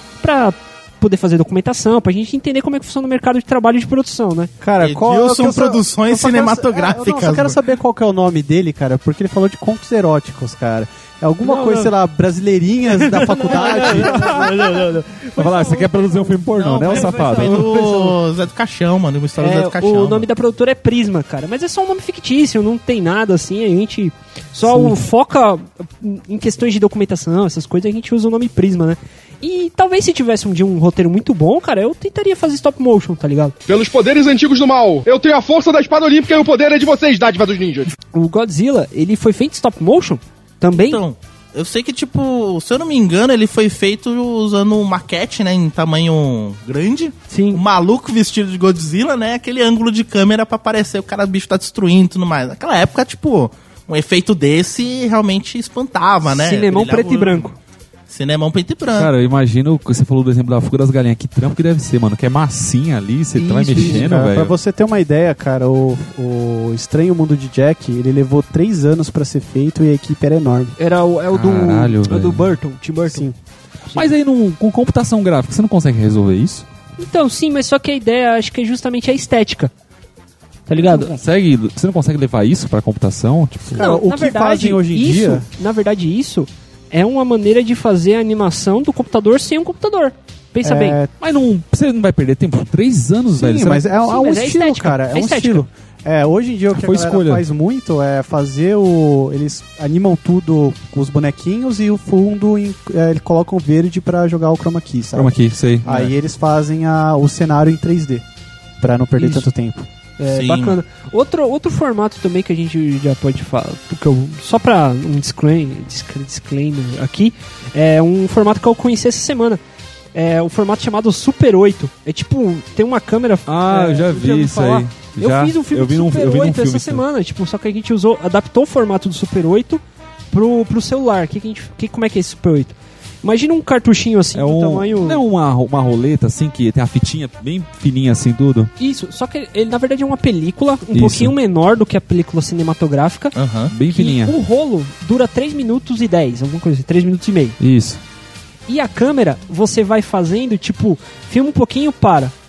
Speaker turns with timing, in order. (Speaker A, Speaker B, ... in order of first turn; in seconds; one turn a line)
Speaker A: 0.2-4.5
Speaker B: 4.6-14.7
Speaker C: 4.8-7.6
Speaker A: 11.4-11.9
Speaker A: 12.9-18.1
Speaker D: 14.2-14.5
Speaker D: 15.3-17.7
Speaker C: 16.6-20.3
Speaker A: 19.4-33.5
Speaker E: 33.7-37.9
Speaker A: 38.1-41.0
Speaker C: 40.7-57.5
Speaker A: 47.3-47.6
Speaker A: 56.2-57.5
Speaker C: 58.1-59.1
Speaker D: 58.9-64.5
Speaker B: 63.3-70.7
Speaker A: 63.8-64.0
Speaker A: 70.8-73.3
Speaker D: 71.3-72.5
Speaker B: 73.1-73.3
Speaker D: 73.9-76.6
Speaker A: 77.0-79.7
Speaker A: 80.7-81.1
Speaker D: 80.9-83.8
Speaker B: 83.7-85.5
Speaker A: 83.8-91.0
Speaker B: 90.6-91.1
Speaker D: 91.2-93.8
Speaker B: 93.3-105.3
Speaker A: 94.0-95.6
Speaker D: 96.7-97.4
Speaker D: 105.1-105.8
Speaker C: 105.8-106.1
Speaker B: 105.8-108.2
Speaker B: 108.8-109.9
Speaker A: 109.2-109.5
Speaker A: 110.2-119.6
Speaker C: 110.3-110.8
Speaker A: 120.1-135.2
Speaker D: 123.5-127.0
Speaker D: 134.3-138.7
Speaker A: 138.8-143.3
Speaker D: 140.9-141.3
Speaker C: 143.3-143.7
Speaker D: 143.7-144.3
Speaker A: 143.9-147.6
Speaker D: 147.6-148.0
Speaker A: 148.7-152.3